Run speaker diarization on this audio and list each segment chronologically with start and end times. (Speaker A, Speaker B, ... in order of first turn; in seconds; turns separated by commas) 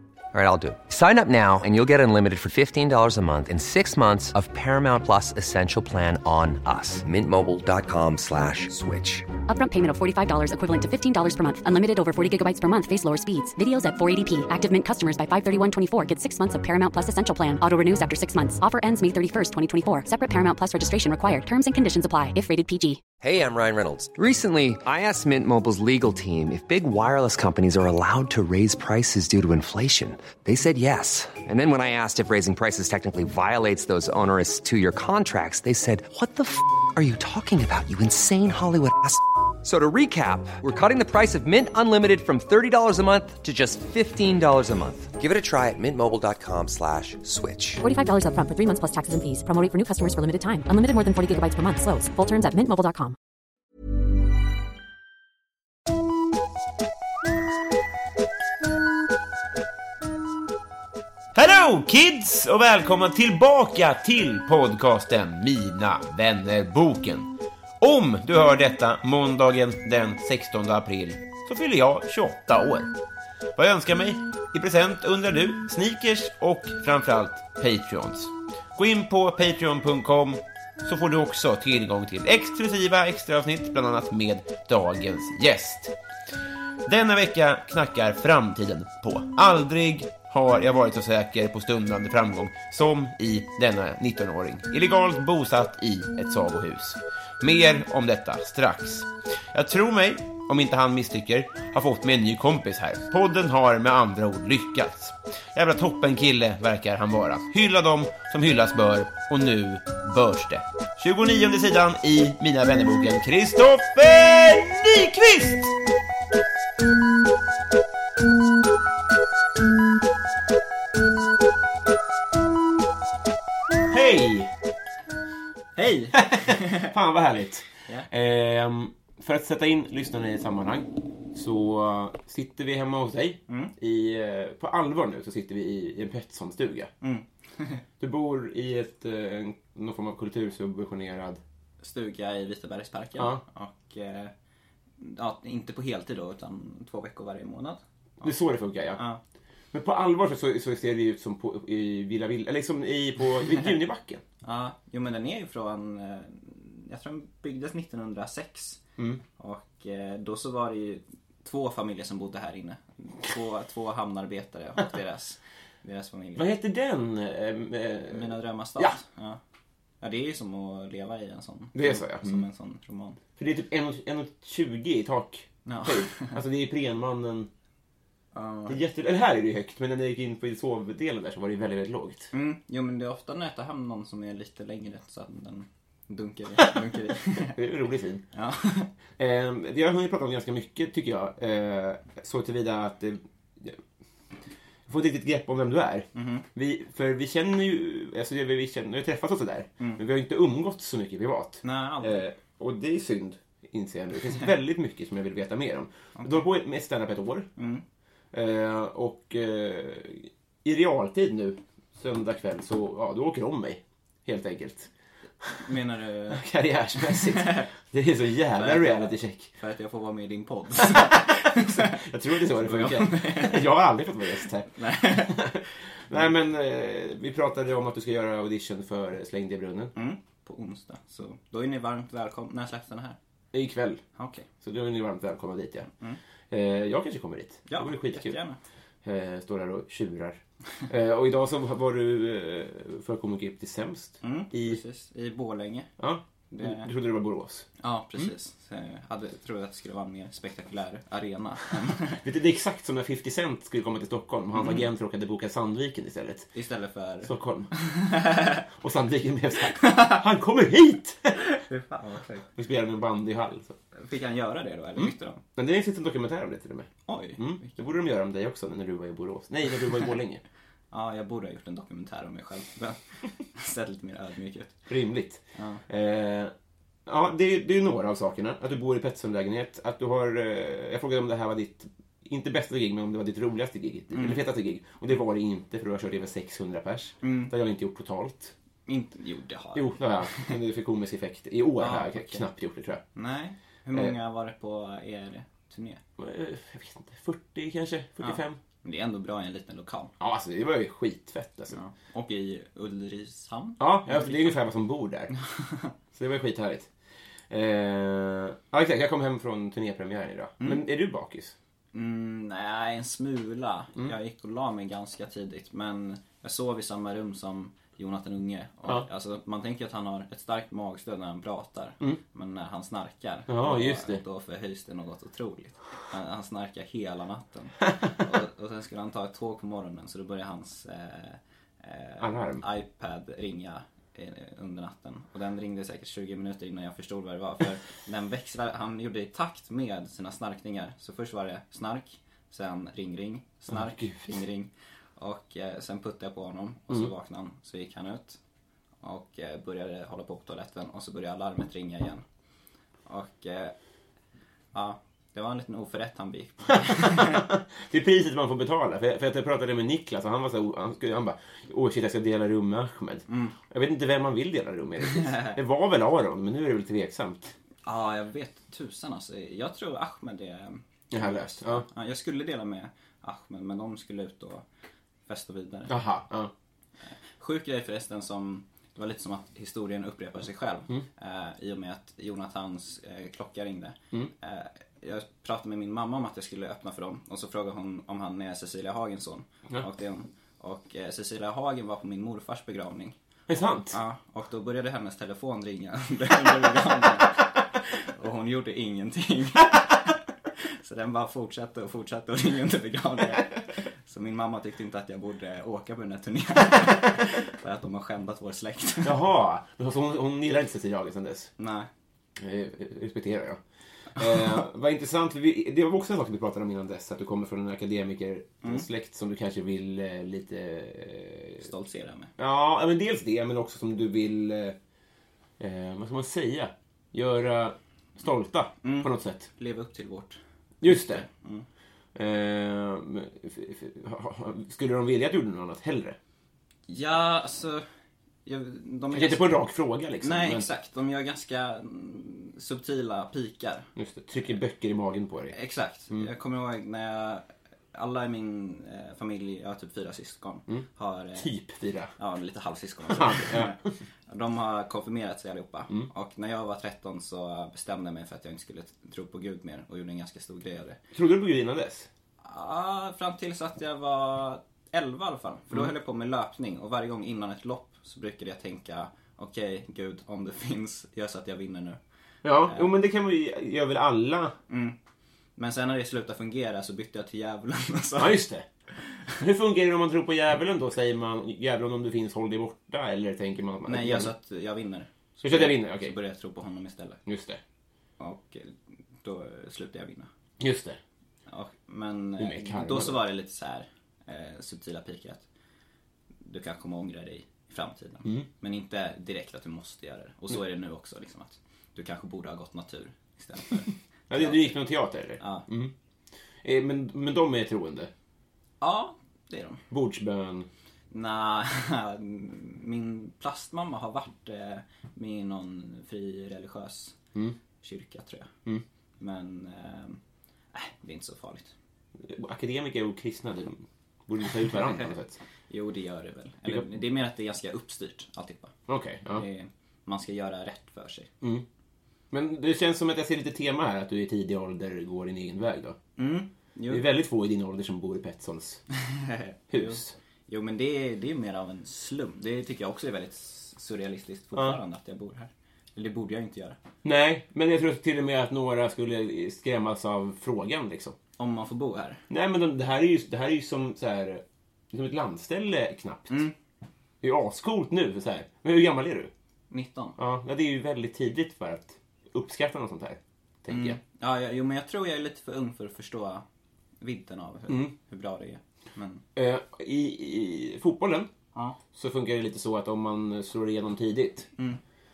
Speaker A: 0.3-9.3, Speaker B: 9.5-23.0, Speaker A: 23.2-47.8, Speaker B: 47.8-53.2, Speaker C: 61.4-72.9, Speaker C: 73.6-86.0, Speaker C: 86.8-115.7, Speaker C: 123.9-124.5, Speaker D: 125.8-126.9, Speaker C: 126.1-136.9, Speaker D: 133.5-133.7, Speaker D: 137.0-137.8, Speaker C: 138.0-141.4, Speaker D: 141.8-144.3, Speaker C: 143.2-143.4, Speaker D: 145.0-148.3, Speaker C: 148.2-149.0, Speaker D: 148.9-149.2, Speaker C: 149.7-154.2, Speaker D: 154.4-158.8, Speaker D: 159.4-166.5, Speaker C: 166.4-168.9, Speaker D: 168.1-169.4, Speaker D: 170.0-173.2, Speaker C: 171.7-172.4, Speaker C: 173.4-177.5, Speaker D: 175.7-176.4, Speaker D: 178.3-178.8, Speaker C: 178.7-182.3, Speaker D: 182.3-187.6, Speaker C: 187.3-188.3, Speaker D: 188.3-188.9, Speaker C: 189.2-193.8, Speaker C: 194.9-207.5, Speaker D: 196.1-196.5, Speaker D: 201.6-202.3, Speaker D: 206.2-206.4, Speaker D: 207.6-207.8, Speaker C: 208.3-214.9, Speaker C: 215.4-215.7, Speaker D: 215.5-217.7, Speaker C: 216.3-219.5, Speaker D: 218.5-223.7, Speaker C: 221.6-229.9, Speaker D: 224.8-225.5, Speaker D: 229.9-233.2, Speaker C: 233.5-234.0, Speaker D: 234.2-234.5, Speaker C: 234.6-235.9, Speaker C: 236.5-238.4, Speaker D: 237.7-238.6, Speaker C: 239.0-244.8, Speaker D: 244.2-245.9, Speaker C: 246.0-247.7, Speaker D: 246.5-246.9, Speaker D: 247.8-252.2, Speaker C: 252.2-256.5, Speaker D: 254.6-254.8, Speaker D: 256.5-258.6, Speaker C: 257.2-257.8, Speaker C: 258.7-261.4, Speaker D: 259.8-260.2, Speaker D: 261.4-262.5, Speaker C: 262.6-263.8, Speaker D: 263.9-265.4, Speaker C: 265.0-270.4, Speaker D: 267.1-267.8, Speaker D: 270.9-274.9, Speaker C: 274.9-276.5, Speaker D: 275.6-275.8, Speaker C: 277.1-288.6, Speaker D: 284.1-284.4, Speaker D: 287.2-287.5, Speaker D: 288.9-290.6, Speaker C: 289.8-293.0, Speaker D: 291.8-292.5, Speaker D: 293.1-296.0, Speaker C: 296.2-298.6, Speaker D: 298.2-300.1, Speaker C: 300.2-301.8, Speaker D: 301.7-304.6, Speaker C: 303.8-305.3, Speaker D: 305.4-305.9, Speaker C: 306.1-306.9, Speaker C: 307.5-311.6, Speaker D: 311.9-348.4, Speaker C: 323.5-324.2, Speaker C: 332.2-332.6, Speaker C: 343.7-344.4, Speaker D: 349.0-352.2, Speaker D: 353.1-353.8, Speaker D: 354.7-357.5, Speaker C: 356.8-367.6, Speaker D: 363.3-363.6, Speaker D: 365.1-365.6, Speaker D: 367.9-374.6, Speaker C: 371.1-371.9, Speaker D: 375.3-375.9, Speaker C: 375.9-376.5, Speaker D: 377.4-393.2, Speaker C: 393.5-394.0, Speaker D: 393.9-400.1, Speaker D: 400.6-409.2, Speaker C: 409.0-411.5, Speaker D: 411.6-411.9, Speaker C: 412.4-413.6, Speaker C: 414.1-421.6, Speaker D: 421.6-422.3, Speaker C: 422.4-424.8, Speaker C: 425.6-429.5, Speaker D: 428.8-431.7, Speaker C: 430.8-431.2, Speaker C: 432.1-436.2, Speaker D: 436.9-437.9, Speaker D: 438.5-439.5, Speaker C: 439.1-440.7, Speaker D: 440.2-443.9, Speaker C: 444.0-445.6, Speaker D: 445.5-451.5, Speaker C: 451.4-452.1, Speaker D: 452.2-461.0, Speaker C: 453.1-453.8, Speaker C: 461.1-462.1, Speaker D: 462.4-472.0, Speaker C: 472.4-474.6, Speaker D: 472.6-472.9, Speaker D: 474.7-475.0, Speaker D: 475.6-478.4, Speaker C: 478.2-478.7, Speaker D: 479.0-479.4, Speaker C: 479.4-484.3, Speaker D: 483.9-487.2, Speaker C: 485.4-486.1, Speaker C: 487.3-487.6, Speaker D: 488.2-490.3, Speaker C: 490.6-491.0, Speaker D: 491.5-495.5, Speaker C: 492.4-493.2, Speaker D: 496.4-504.8, Speaker C: 504.3-505.9, Speaker D: 505.4-505.7, Speaker C: 506.6-508.1, Speaker D: 508.8-509.8, Speaker C: 509.9-510.7, Speaker D: 511.1-517.2, Speaker D: 517.8-518.5, Speaker D: 519.2-520.2, Speaker D: 520.7-521.7, Speaker C: 522.2-525.4, Speaker D: 524.6-525.1, Speaker D: 525.7-528.8, Speaker C: 528.9-529.5, Speaker D: 529.3-531.3, Speaker C: 532.3-536.0, Speaker D: 536.2-537.1, Speaker C: 536.9-538.8, Speaker D: 538.9-546.8, Speaker C: 539.7-540.1, Speaker C: 547.0-551.2, Speaker D: 551.4-552.2, Speaker C: 552.3-556.5, Speaker C: 557.2-559.3, Speaker D: 559.7-560.2, Speaker C: 560.2-564.0, Speaker D: 563.7-566.4, Speaker D: 567.0-569.2, Speaker C: 567.7-567.9, Speaker C: 569.4-571.3, Speaker C: 571.9-574.5